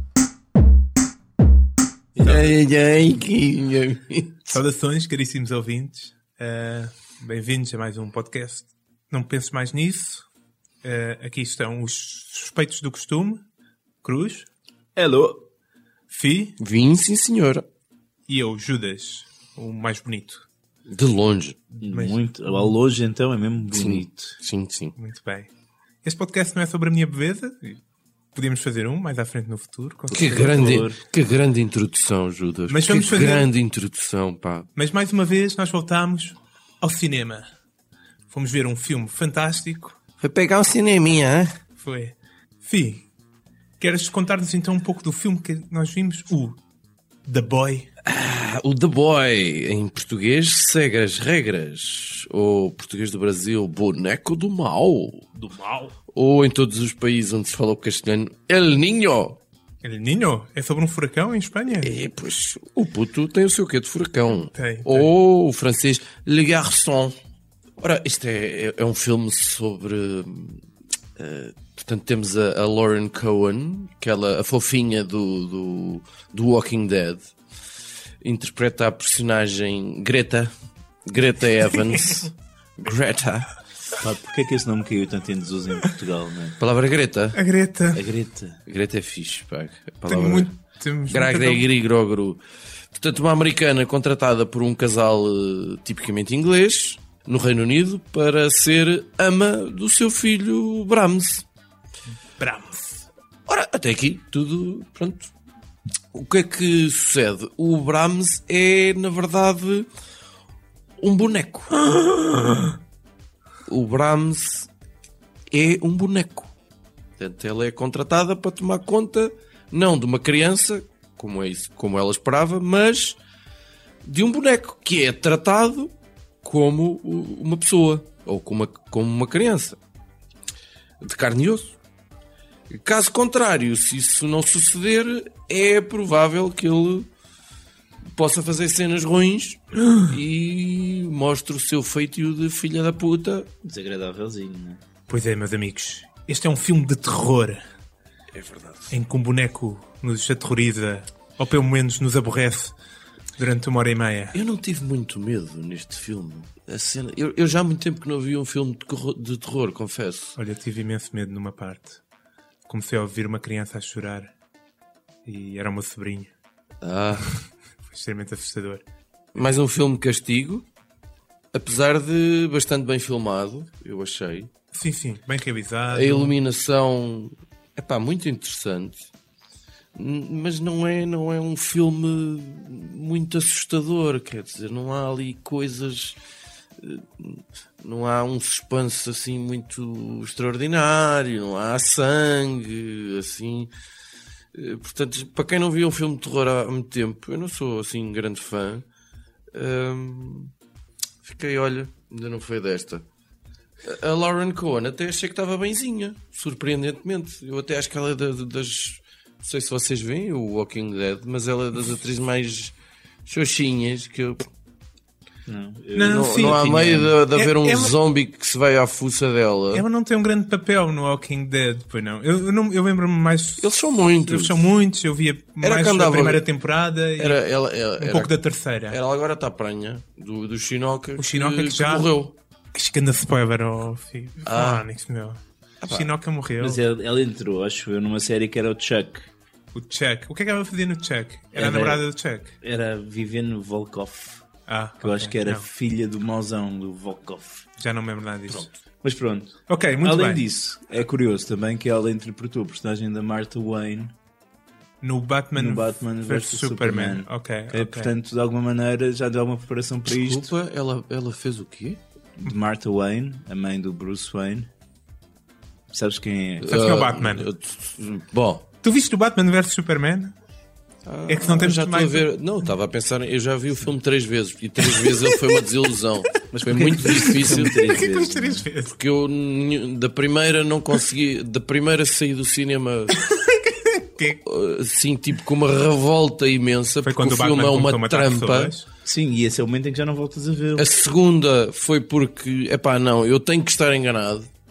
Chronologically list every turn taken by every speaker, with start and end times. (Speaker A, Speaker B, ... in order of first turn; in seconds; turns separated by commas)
Speaker A: 2.1-4.6, Speaker B: 4.5-10.2, Speaker B: 10.8-13.4, Speaker B: 14.0-14.5, Speaker C: 14.9-15.4, Speaker B: 16.1-16.6, Speaker A: 16.6-17.6, Speaker B: 18.3-20.4, Speaker A: 20.9-21.6, Speaker B: 21.7-22.7, Speaker C: 21.8-24.4, Speaker A: 23.7-24.9, Speaker B: 24.9-25.5, Speaker B: 26.0-27.8, Speaker B: 28.3-30.8, Speaker C: 30.1-31.0, Speaker A: 30.1-34.7, Speaker B: 32.7-33.5, Speaker B: 34.8-37.5, Speaker B: 38.3-40.0, Speaker A: 40.2-41.6, Speaker B: 41.8-43.0, Speaker B: 43.8-46.6, Speaker B: 47.2-47.9, Speaker A: 48.0-55.3, Speaker B: 55.3-55.9, Speaker A: 56.1-59.4, Speaker B: 59.8-61.9, Speaker A: 61.8-67.2, Speaker B: 64.4-65.1, Speaker A: 67.8-70.6, Speaker A: 71.2-77.3, Speaker A: 78.2-80.5, Speaker A: 81.0-83.5, Speaker C: 84.0-86.5, Speaker A: 86.6-87.4, Speaker B: 87.3-88.0, Speaker C: 87.9-88.6, Speaker A: 88.7-90.5, Speaker B: 90.1-91.6, Speaker A: 91.1-92.4, Speaker A: 92.9-101.5, Speaker B: 102.4-103.0, Speaker A: 103.5-105.3, Speaker A: 106.1-109.9, Speaker A: 111.0-111.8, Speaker B: 111.9-112.7, Speaker A: 113.7-114.7, Speaker A: 115.5-116.5, Speaker A: 117.2-123.2, Speaker A: 124.0-129.8, Speaker A: 131.0-131.8, Speaker A: 132.7-137.1, Speaker A: 138.1-143.5, Speaker C: 143.6-144.8, Speaker B: 145.1-147.6, Speaker A: 148.3-149.0, Speaker B: 148.9-152.7, Speaker B: 153.4-154.3, Speaker A: 154.3-160.4, Speaker B: 160.3-162.0, Speaker B: 162.7-164.3, Speaker B: 165.2-166.3, Speaker A: 166.8-167.4, Speaker B: 167.9-168.8, Speaker A: 169.3-170.7, Speaker A: 171.5-174.5, Speaker B: 174.7-176.3, Speaker A: 175.9-179.1, Speaker A: 179.9-186.2, Speaker A: 186.8-193.7, Speaker A: 194.5-198.8, Speaker A: 199.5-200.5, Speaker A: 201.2-203.1, Speaker A: 203.8-214.4, Speaker C: 215.4-217.1, Speaker B: 215.9-217.9, Speaker A: 216.1-219.8, Speaker B: 219.7-227.4, Speaker A: 223.6-224.7, Speaker A: 225.6-226.4, Speaker A: 227.2-228.3, Speaker B: 228.0-229.0, Speaker A: 228.9-232.3, Speaker B: 231.2-232.1, Speaker B: 232.7-236.8, Speaker A: 234.4-234.8, Speaker A: 235.8-236.1, Speaker C: 236.6-239.3, Speaker B: 239.7-242.5, Speaker C: 241.5-242.0, Speaker C: 242.6-244.4, Speaker B: 244.7-245.6, Speaker C: 245.0-247.7, Speaker B: 247.8-248.7, Speaker A: 248.5-248.7, Speaker C: 249.0-254.1, Speaker B: 249.7-250.4, Speaker B: 255.0-258.1, Speaker C: 255.5-260.5, Speaker A: 260.1-262.0, Speaker C: 262.4-264.7, Speaker C: 265.9-266.7, Speaker A: 266.6-268.6, Speaker B: 266.7-267.5, Speaker B: 268.8-270.3, Speaker A: 271.1-277.8, Speaker B: 271.3-272.3, Speaker B: 275.0-275.3, Speaker C: 276.5-278.7, Speaker B: 277.1-278.9, Speaker A: 278.9-283.2, Speaker B: 283.1-284.4, Speaker A: 284.4-288.7, Speaker B: 287.0-288.8, Speaker C: 289.0-290.9, Speaker A: 290.8-294.5